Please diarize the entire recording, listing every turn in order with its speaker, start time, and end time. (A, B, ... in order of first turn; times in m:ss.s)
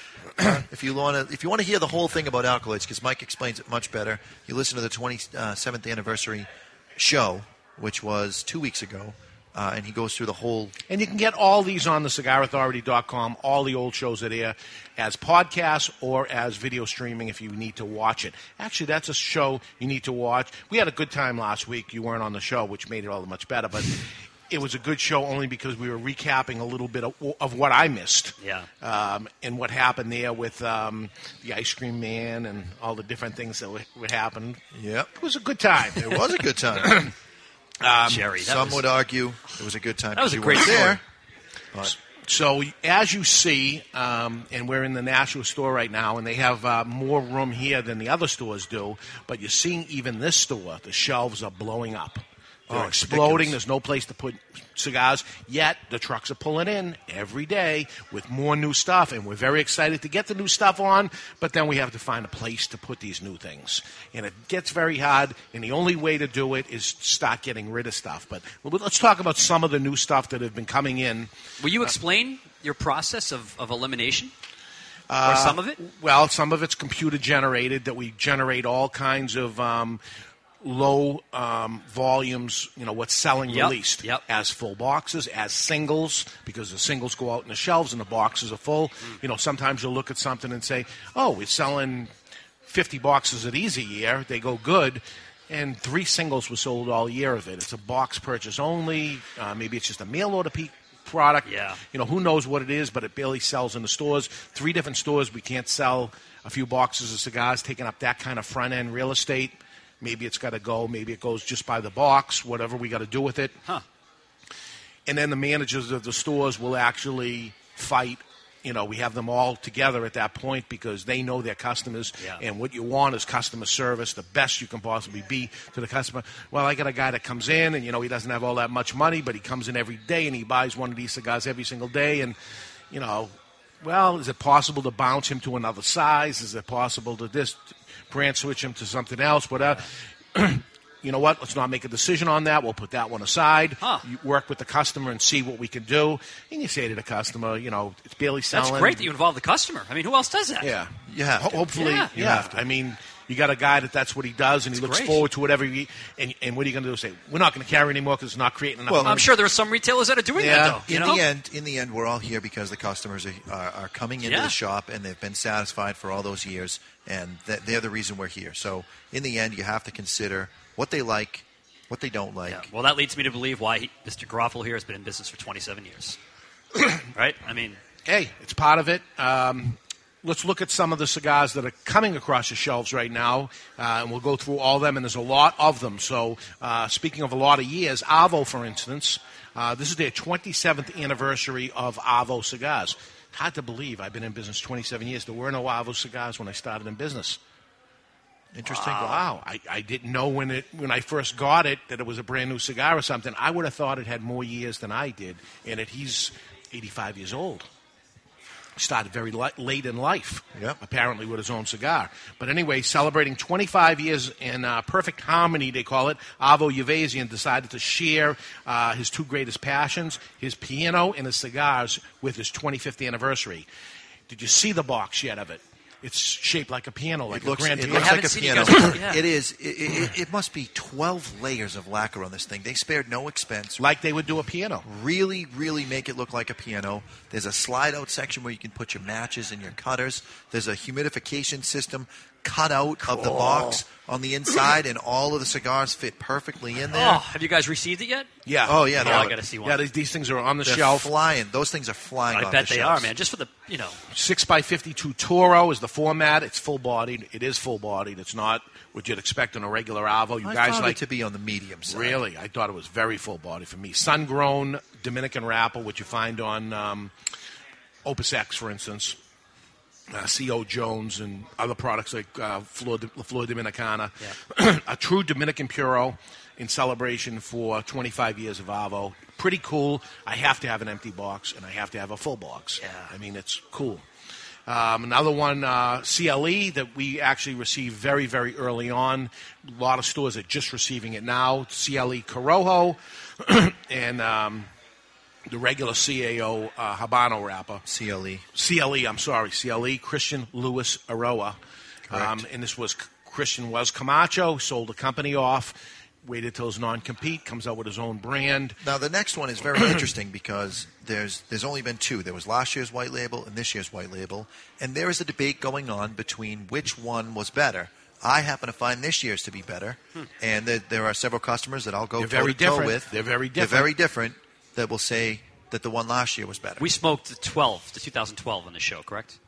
0:00.4-0:10.7 A
0:10.9-0:34.6 B
0:28.4-0:28.7 C
0:34.7-0:35.1 A
0:35.2-0:37.1 B
0:36.0-0:37.1 A
0:37.8-0:38.3 B
0:38.1-0:38.9 C
0:38.3-0:41.0 A
0:40.1-0:41.0 C
0:41.9-1:11.3 B
0:52.7-0:53.6 A
1:11.6-1:14.3 C
1:15.1-1:20.0 B
1:15.2-1:15.8 C
1:20.6-1:32.1 B
1:23.5-1:24.2 C
1:32.7-1:53.6 B
1:41.4-1:41.8 C
1:55.1-2:12.4 B
2:12.9-2:29.1 B
2:28.5-2:30.7 C
2:30.6-2:39.4 B
2:31.1-2:32.6 A
2:31.8-2:32.1 C
2:34.8-2:35.2 C
2:38.9-2:39.2 A
2:39.0-2:41.2 C
2:40.4-2:40.9 B
2:40.6-2:52.7 A
2:44.2-2:44.5 C
2:52.5-2:56.2 C
2:57.1-2:57.8 C
2:58.1-3:17.4 B
3:18.5-3:19.2 A
3:18.6-3:19.2 C
3:19.0-3:27.7 B
3:28.8-3:43.7 B
3:44.3-3:49.0 B
3:47.3-3:53.8 A
3:47.9-3:49.2 C
3:53.8-3:54.8 B
3:54.8-4:07.2 A
4:03.1-4:03.8 C
4:06.9-4:08.3 C
4:08.5-4:11.1 B
4:08.6-4:09.4 A
4:09.0-4:09.8 C
4:10.6-4:13.1 A
4:12.3-4:14.0 C
4:14.1-4:21.0 B
4:20.4-4:22.2 A
4:21.9-4:27.1 B
4:28.0-4:29.2 B
4:30.1-4:44.0 B
4:42.8-4:43.1 C
4:44.7-4:54.7 B
4:55.5-4:57.8 B
4:57.8-4:58.4 A
4:58.6-5:01.6 B
5:02.1-5:02.4 A
5:02.1-5:08.8 B
5:08.8-5:26.9 A
5:22.2-5:23.9 B
5:26.8-5:29.4 C